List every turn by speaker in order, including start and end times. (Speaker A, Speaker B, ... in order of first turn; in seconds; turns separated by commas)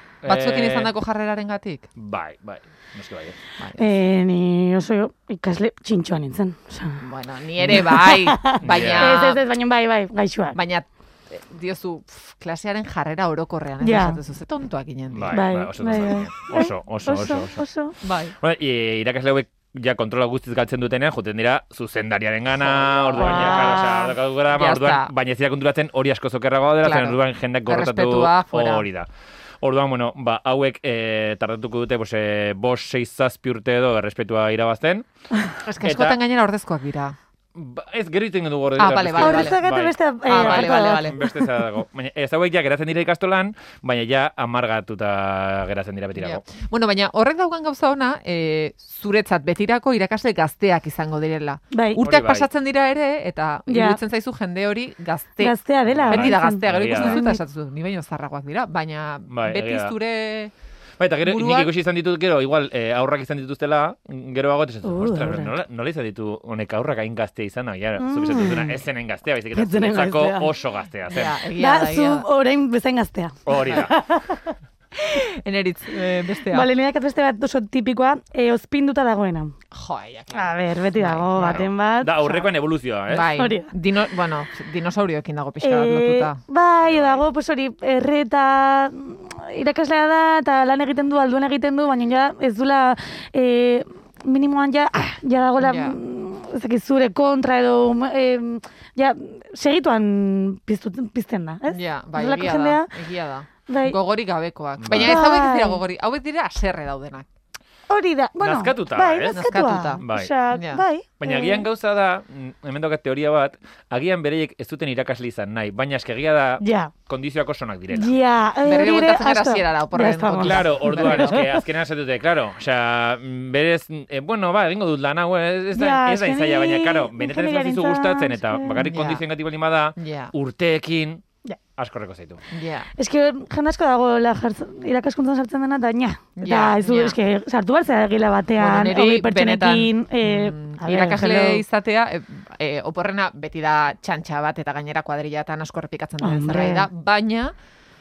Speaker A: 0.2-0.9, Speaker B: 0.2-1.9, Speaker A: 2.0-3.4, Speaker B: 3.6-4.0, Speaker C: 3.8-7.0, Speaker B: 7.0-9.4, Speaker C: 7.7-10.6, Speaker A: 8.6-9.2, Speaker B: 10.5-15.4, Speaker C: 13.8-14.2, Speaker A: 15.1-17.6, Speaker C: 15.3-18.0, Speaker B: 18.0-18.4, Speaker A: 18.4-29.1, Speaker B: 22.6-23.9, Speaker C: 23.2-24.1, Speaker B: 24.5-25.1, Speaker B: 26.8-28.9, Speaker A: 29.6-35.0, Speaker B: 35.6-37.1, Speaker A: 35.8-36.2, Speaker A: 37.5-46.4, Speaker B: 38.8-39.6, Speaker C: 39.2-41.3, Speaker B: 40.3-41.3, Speaker B: 46.2-55.5, Speaker C: 51.7-52.0, Speaker A: 52.0-52.5, Speaker C: 53.7-54.0, Speaker C: 55.4-57.4, Speaker A: 55.9-57.2, Speaker B: 56.1-60.5, Speaker A: 59.3-60.0, Speaker A: 61.0-71.4, Speaker B: 61.2-61.7, Speaker C: 64.8-65.5, Speaker C: 68.0-68.8, Speaker C: 69.5-70.5, Speaker B: 71.1-72.3, Speaker C: 71.5-74.5, Speaker A: 73.5-74.0, Speaker B: 75.0-76.7, Speaker C: 76.5-79.5, Speaker B: 79.7-81.7, Speaker C: 80.3-82.2, Speaker A: 81.4-83.3, Speaker B: 83.1-86.4, Speaker C: 83.3-83.7, Speaker C: 85.6-102.9, Speaker A: 86.8-87.2, Speaker B: 95.6-96.0, Speaker B: 101.7-107.3, Speaker C: 103.7-104.0, Speaker A: 104.8-105.2, Speaker C: 104.9-105.8, Speaker C: 107.9-111.7, Speaker A: 108.4-110.3, Speaker B: 109.3-110.8, Speaker A: 111.2-118.2, Speaker C: 116.6-116.9, Speaker C: 117.9-121.5, Speaker B: 118.7-121.5, Speaker A: 120.4-131.2, Speaker C: 125.7-128.9, Speaker B: 128.8-129.2, Speaker B: 130.0-130.3, Speaker A: 131.8-132.4, Speaker B: 132.5-132.9, Speaker C: 133.0-141.6, Speaker B: 136.4-137.2, Speaker B: 138.6-147.5, Speaker C: 146.2-146.9